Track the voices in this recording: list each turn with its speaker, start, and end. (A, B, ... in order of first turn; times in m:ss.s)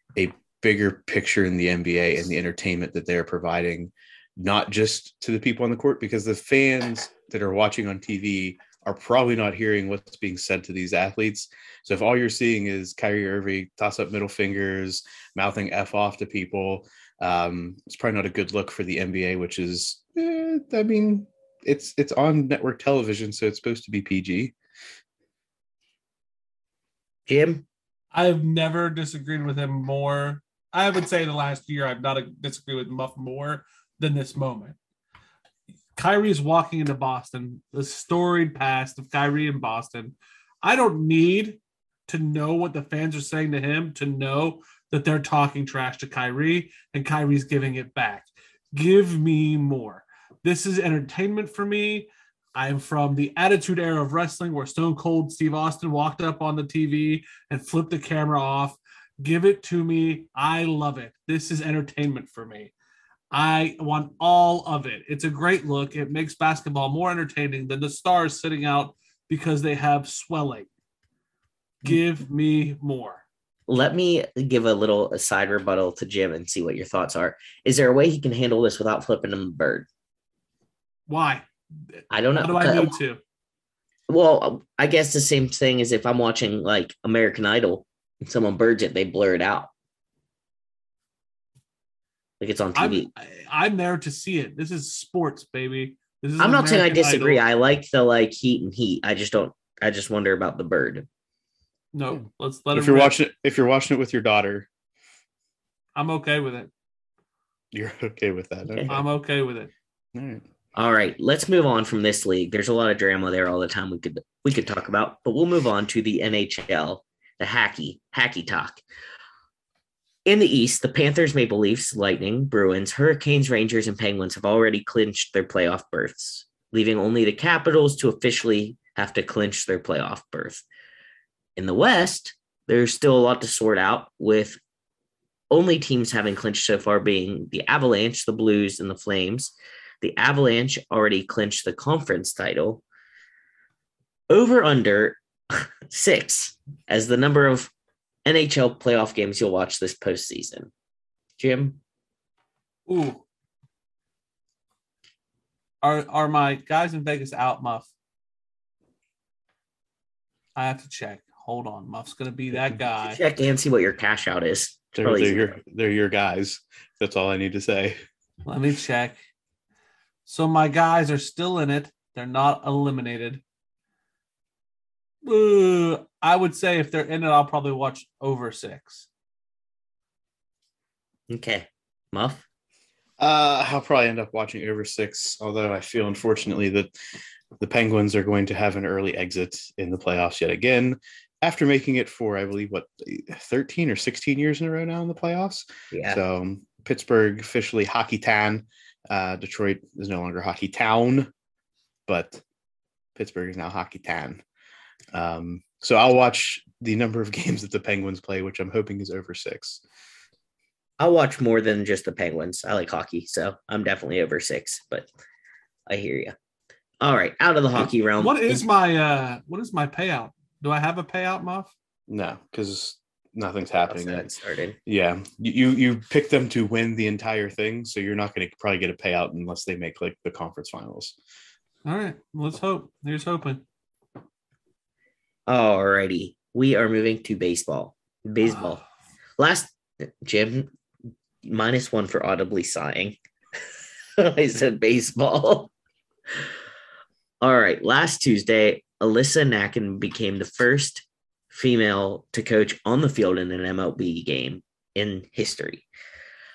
0:00.2-0:24.5 A
0:27.3-0:27.6 B
0:28.1-0:34.8 C
0:36.0-1:02.7 C
1:03.3-1:10.7 C
1:11.8-1:13.2 C
1:13.7-1:19.9 B
1:21.1-1:23.2 C
1:22.1-1:23.0 B
1:24.1-1:29.7 B
1:32.4-1:33.1 B
1:32.8-1:37.4 C
1:36.4-1:41.1 B
1:41.9-1:43.2 C
1:42.7-1:44.7 A
1:46.0-1:46.7 C
1:47.7-1:49.0 A
1:48.6-1:49.0 B
1:48.9-1:49.7 C
1:50.1-1:50.4 A
1:50.8-1:58.8 B
2:00.3-2:10.6 B
2:11.6-2:14.6 B
2:15.5-2:22.8 B
2:24.3-2:27.7 B
2:28.2-2:30.7 B
2:31.4-2:31.8 B
2:32.9-2:33.2 C
2:35.8-2:37.9 C
2:40.6-2:43.2 C
2:43.0-2:45.6 B
2:44.9-2:48.0 A
2:48.5-2:49.2 C
2:50.3-2:53.4 C
2:55.2-2:59.1 C
3:01.3-3:02.4 B
3:03.2-3:06.9 A
3:07.6-3:21.3 A
3:15.9-3:16.2 B
3:22.1-3:22.4 A
3:23.2-3:24.4 A
3:25.1-3:29.8 A
3:31.0-3:35.1 B
3:35.9-3:36.4 B
3:37.0-3:38.6 B
3:38.2-3:41.7 C
3:42.1-3:44.3 A
3:43.9-3:44.8 B
3:44.9-3:51.2 A
3:51.8-3:53.6 C
3:55.5-3:58.8 B
3:59.4-4:00.7 B
4:01.4-4:03.2 B
4:04.2-4:05.7 B
4:07.4-4:15.9 B